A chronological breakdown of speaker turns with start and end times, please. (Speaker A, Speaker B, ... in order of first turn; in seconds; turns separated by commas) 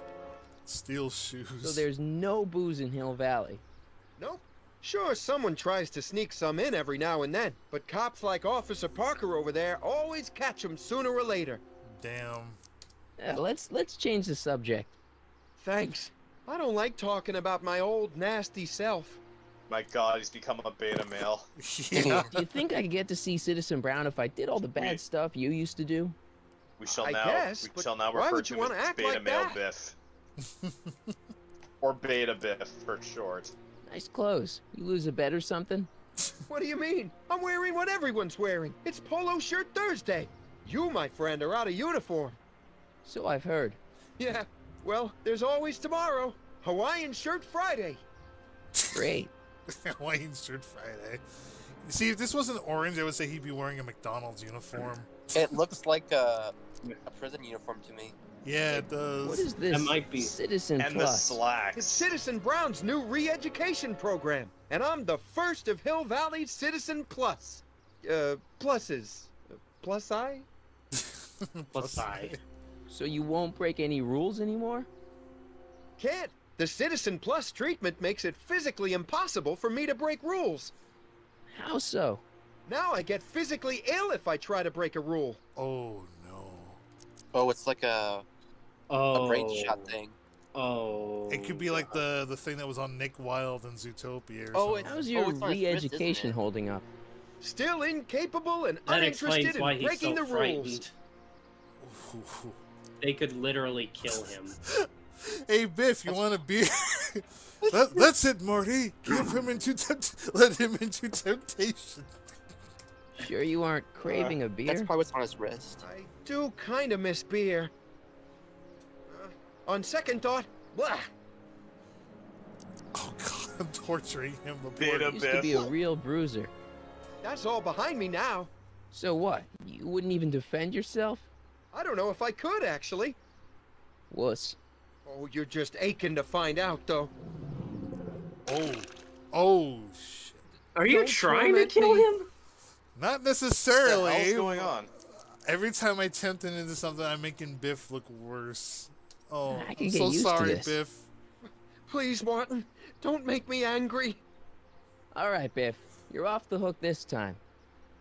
Speaker A: 0.7-1.9, Speaker B: 1.6-3.6, Speaker C: 4.2-11.6, Speaker A: 11.9-12.6, Speaker B: 13.2-14.9, Speaker C: 15.6-19.2, Speaker D: 19.7-21.5, Speaker A: 21.6-22.4, Speaker B: 22.0-26.2, Speaker D: 24.8-25.0, Speaker D: 26.8-29.9, Speaker C: 26.9-29.6, Speaker A: 30.5-31.1, Speaker D: 31.8-33.5, Speaker B: 33.9-35.9, Speaker C: 36.5-42.4, Speaker B: 43.0-43.8, Speaker C: 44.2-48.0, Speaker A: 48.8-49.1, Speaker B: 48.9-49.3, Speaker A: 49.7-51.2, Speaker A: 51.8-55.8, Speaker E: 55.4-58.2, Speaker A: 58.4-59.5, Speaker B: 59.2-61.4, Speaker F: 59.7-60.4, Speaker D: 60.8-62.0, Speaker C: 61.8-70.5, Speaker A: 70.9-72.4, Speaker F: 71.7-72.4, Speaker B: 72.9-74.9, Speaker C: 76.0-80.7, Speaker B: 81.5-82.2, Speaker C: 82.7-85.4, Speaker A: 85.6-86.8, Speaker E: 87.3-88.2, Speaker F: 88.9-89.9, Speaker E: 89.1-90.2, Speaker F: 90.5-92.0, Speaker A: 91.3-95.0, Speaker C: 94.5-94.9, Speaker B: 94.8-96.8, Speaker E: 94.9-96.4, Speaker C: 97.4-100.8, Speaker F: 98.9-100.9, Speaker A: 101.8-102.6, Speaker F: 103.0-104.6, Speaker A: 104.0-112.2, Speaker B: 113.2-114.9, Speaker E: 114.2-115.8, Speaker C: 115.8-117.7, Speaker C: 119.1-121.1, Speaker A: 122.9-125.2, Speaker D: 124.8-125.7, Speaker B: 125.1-126.5, Speaker C: 127.2-128.5, Speaker B: 128.9-131.3, Speaker C: 131.7-133.2, Speaker B: 134.1-134.6, Speaker C: 135.1-137.1, Speaker A: 138.5-140.4, Speaker F: 140.8-142.3, Speaker C: 140.9-142.1, Speaker A: 143.0-151.1, Speaker D: 143.8-144.9, Speaker B: 149.5-150.8, Speaker C: 151.9-154.2, Speaker B: 155.1-157.4